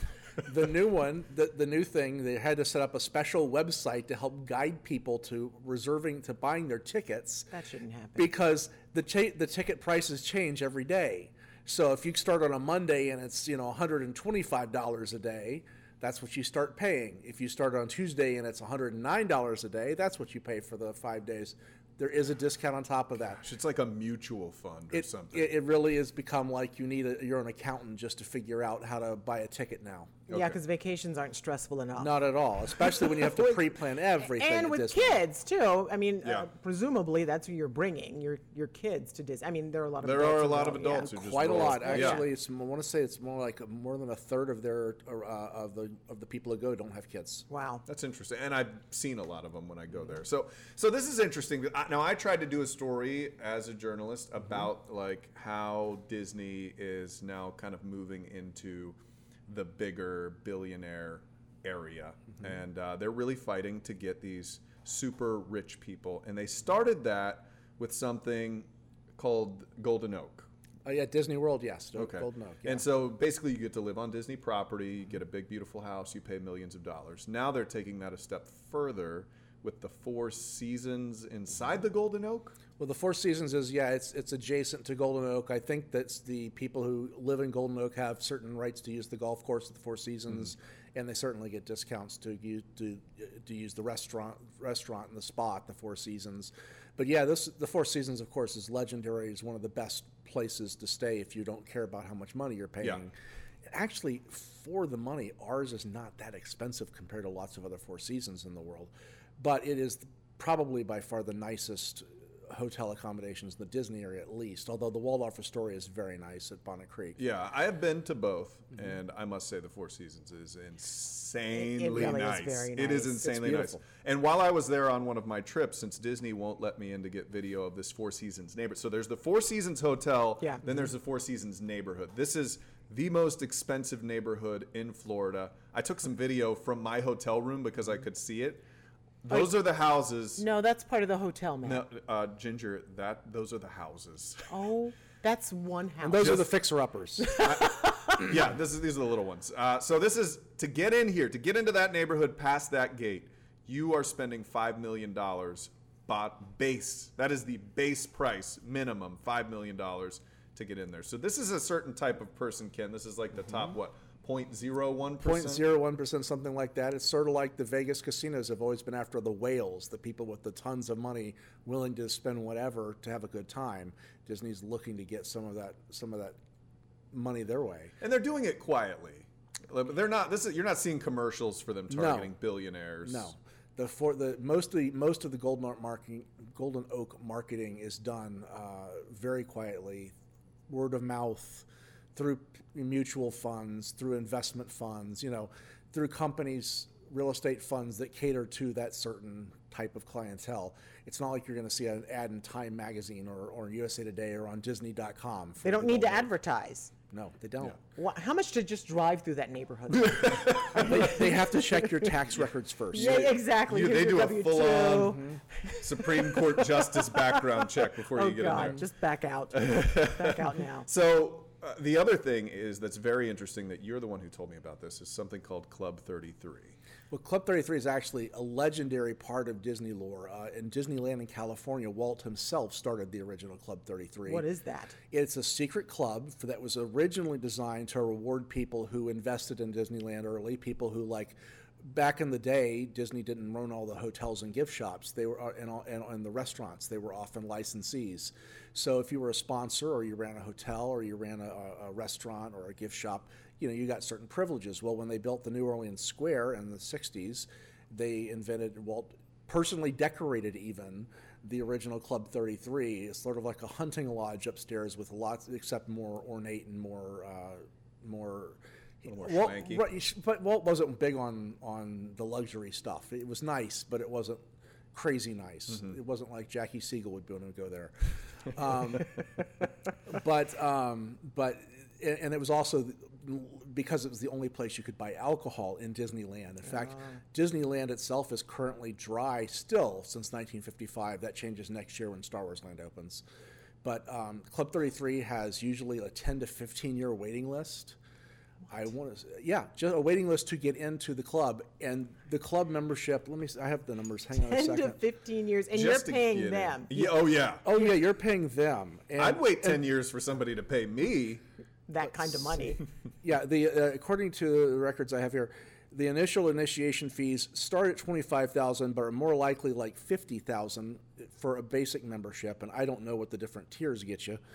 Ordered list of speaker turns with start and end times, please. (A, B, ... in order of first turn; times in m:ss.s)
0:00.4-0:07.5 A
0:07.5-0:08.3 B
0:08.2-0:23.4 A
0:23.4-0:25.5 C
0:24.9-0:30.3 A
0:30.3-0:32.2 B
0:30.3-0:30.6 C
0:32.0-0:35.2 A
0:32.7-0:33.6 B
0:34.2-0:42.3 B
0:40.0-0:42.2 C
0:41.1-0:47.5 A
0:47.5-0:47.8 B
0:47.9-1:10.5 C
1:10.8-1:12.8 A
1:12.0-1:22.6 C
1:22.8-1:43.1 A
1:43.7-1:57.2 A
1:57.2-2:18.6 C
2:01.5-2:03.6 B
2:03.4-2:03.8 A
2:19.2-2:20.4 C
2:20.4-2:21.8 B
2:21.6-2:24.5 C
2:24.5-2:26.5 B
2:26.0-2:27.3 A
2:26.2-2:26.5 C
2:27.2-2:28.2 B
2:27.4-2:45.7 C
2:45.2-2:56.4 A
2:57.1-2:57.9 A
2:58.0-3:03.3 C
3:01.9-3:02.3 A
3:03.0-3:10.1 A
3:10.7-3:26.3 A
3:25.6-3:26.9 B
3:27.1-3:27.8 A
3:28.0-3:32.1 B
3:30.1-3:31.1 C
3:30.7-3:33.3 A
3:32.9-3:40.9 B
3:32.9-3:35.2 C
3:35.8-3:38.8 C
3:39.5-3:46.8 C
3:47.1-3:54.4 A
3:54.2-3:55.0 B
3:55.1-4:39.2 A
4:29.1-4:29.8 C
4:40.0-4:53.2 A
4:46.8-4:47.2 B
4:53.8-4:58.0 A
4:58.7-5:05.0 A
5:04.3-5:07.1 B
5:05.7-5:07.6 C
5:07.6-5:09.8 A
5:09.2-5:11.4 C
5:11.9-5:12.8 B
5:13.2-5:24.4 A